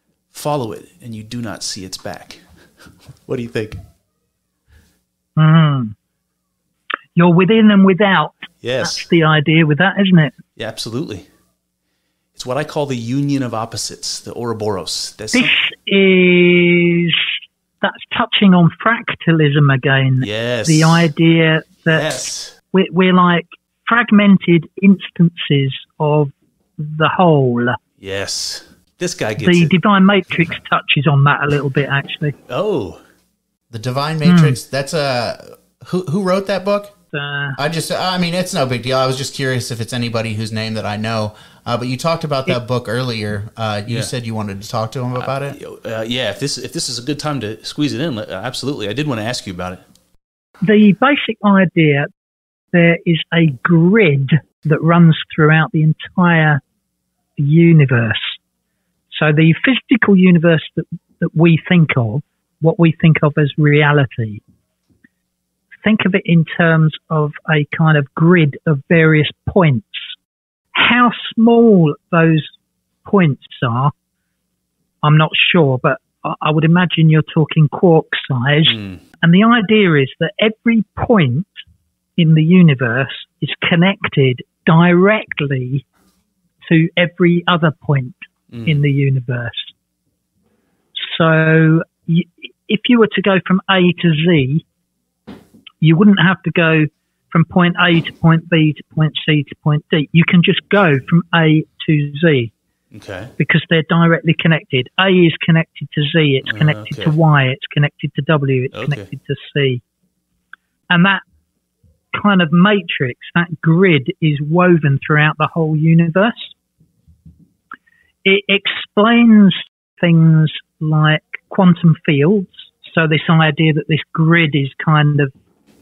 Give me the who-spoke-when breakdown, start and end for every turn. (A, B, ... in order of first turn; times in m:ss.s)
0:00.3-0:02.4 A
0:03.2-0:03.8 A
0:05.4-0:05.9 B
0:07.2-0:10.3 B
0:08.6-0:09.0 A
0:10.6-0:11.2 A
0:12.3-0:15.5 A
0:15.3-0:17.3 B
0:17.8-0:27.8 B
0:20.2-0:21.1 A
0:21.9-0:22.5 A
0:28.0-0:29.7 A
0:29.4-0:32.3 B
0:32.5-0:33.0 A
0:33.7-0:36.9 C
0:34.2-0:34.6 B
0:37.1-0:37.6 B
0:37.6-0:45.6 C
0:45.2-0:49.8 A
0:50.6-0:52.1 B
0:52.7-0:56.6 B
0:57.4-0:58.4 B
0:59.1-1:04.4 B
1:05.8-1:10.1 B
1:10.7-1:12.5 B
1:13.0-1:13.9 B
1:15.0-1:21.5 B
1:18.6-1:19.0 A
1:22.2-1:25.8 B
1:26.6-1:29.7 B
1:31.0-1:34.6 B
1:35.8-1:42.5 B
1:42.9-1:43.3 A
1:43.4-1:49.8 B
1:46.4-1:47.1 A
1:48.7-1:49.1 A
1:50.9-1:51.2 B
1:52.1-1:56.5 B
1:58.2-2:05.3 B